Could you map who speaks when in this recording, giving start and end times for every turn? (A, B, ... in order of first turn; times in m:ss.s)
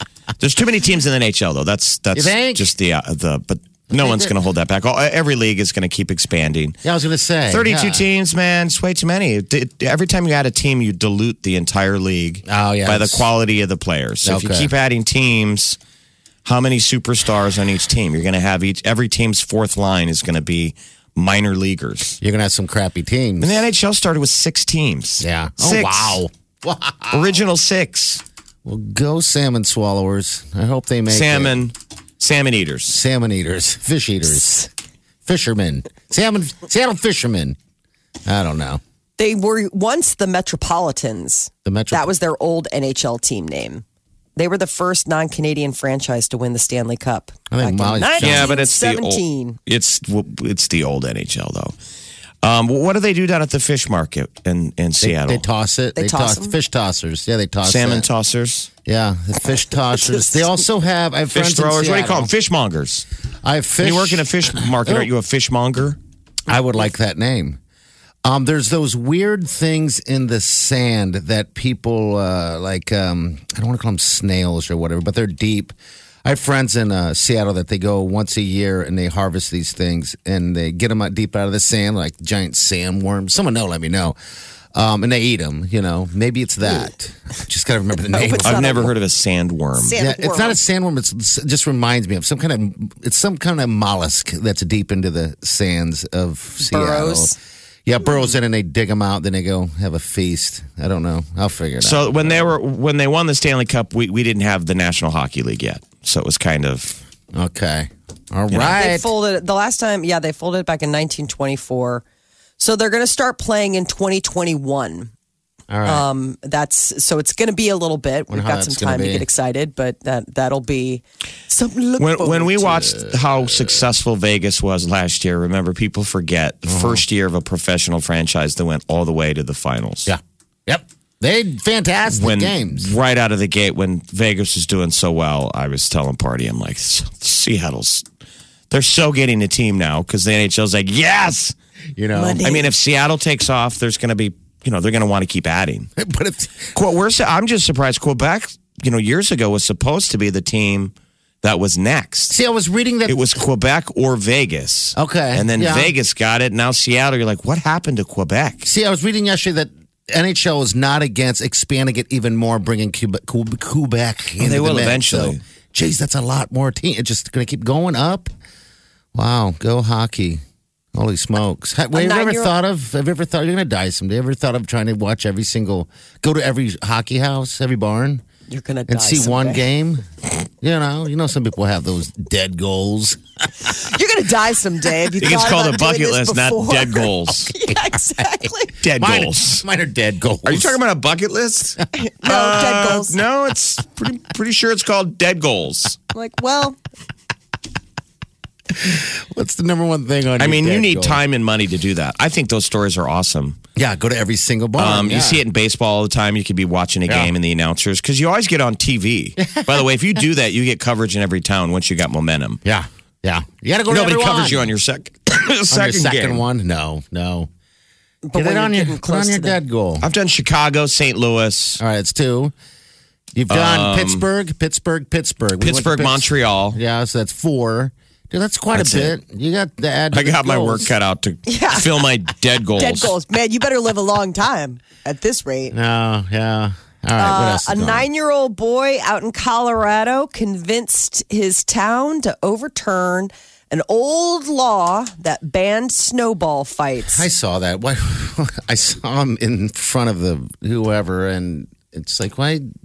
0:00.4-0:06.8 A
0:02.1-0:02.7 B
0:03.9-0:04.3 B
0:06.8-0:08.0 B
0:07.5-0:15.8 A
0:12.4-0:13.2 B
0:14.2-0:14.7 B
0:16.4-0:22.2 A
0:22.2-0:23.7 B
0:23.4-0:26.2 A
0:25.2-0:27.4 B
0:27.1-0:28.2 A
0:28.6-0:31.6 B
0:31.1-0:33.0 A
0:32.9-0:34.7 B
0:35.2-0:37.6 B
0:38.2-0:38.8 B
0:39.2-0:43.8 C
0:41.6-0:42.1 B
0:44.4-0:49.6 C
0:47.5-0:48.5 B
0:48.2-0:51.7 A
0:52.4-0:55.4 A
0:55.0-0:58.1 B
0:56.0-0:56.5 C
0:57.6-0:58.7 A
0:58.8-1:02.3 B
0:59.9-1:00.6 C
1:01.3-1:03.0 A
1:03.4-1:05.1 B
1:03.8-1:06.0 A
1:06.5-1:07.6 B
1:08.2-1:24.2 B
1:24.7-1:28.9 B
1:28.1-1:28.9 C
1:28.4-1:30.0 A
1:29.8-1:30.6 C
1:29.9-1:42.5 B
1:36.6-1:37.4 C
1:41.8-1:47.0 A
1:47.3-1:49.1 B
1:48.5-1:48.8 A
1:48.7-1:52.0 C
1:52.6-1:55.1 C
1:55.7-1:56.0 B
1:55.8-2:02.9 C
1:58.3-1:59.3 B
2:02.0-2:10.1 A
2:03.0-2:03.7 B
2:06.6-2:07.0 B
2:10.0-2:12.9 B
2:12.1-2:18.0 A
2:18.7-2:21.5 A
2:22.0-2:22.4 B
2:22.1-2:22.7 C
2:22.4-2:25.9 A
2:26.0-2:26.7 B
2:26.7-2:32.4 A
2:32.3-2:33.4 B
2:33.0-2:38.7 A
2:34.9-2:35.9 B
2:38.6-2:48.3 B
2:44.4-2:45.4 A
2:49.1-2:50.4 B
2:50.9-2:58.2 B
2:51.9-2:52.5 C
2:58.5-2:59.6 C
2:58.9-3:03.8 B
3:03.7-3:08.7 C
3:05.2-3:07.5 A
3:08.2-3:10.8 B
3:08.8-3:09.6 A
3:10.4-3:16.0 A
3:11.9-3:13.2 C
3:16.1-3:16.8 C
3:18.8-3:21.2 B
3:20.4-3:23.6 A
3:23.8-3:25.4 B
3:24.8-3:32.6 A
3:27.1-3:27.3 B
3:29.4-3:29.8 B
3:32.6-3:34.7 B
3:33.9-3:36.4 A
3:35.7-3:37.5 B
3:38.2-3:39.6 C
3:38.3-3:40.0 B
3:40.0-3:41.8 A
3:41.8-3:42.5 B
3:43.3-3:50.9 B
3:43.5-3:44.2 A
3:45.6-3:46.8 A
3:48.7-3:49.2 A
3:50.1-3:53.1 A
3:51.4-3:51.9 C
3:52.8-3:55.7 C
3:55.7-3:58.0 B
3:57.2-4:07.2 C
4:07.1-4:12.7 B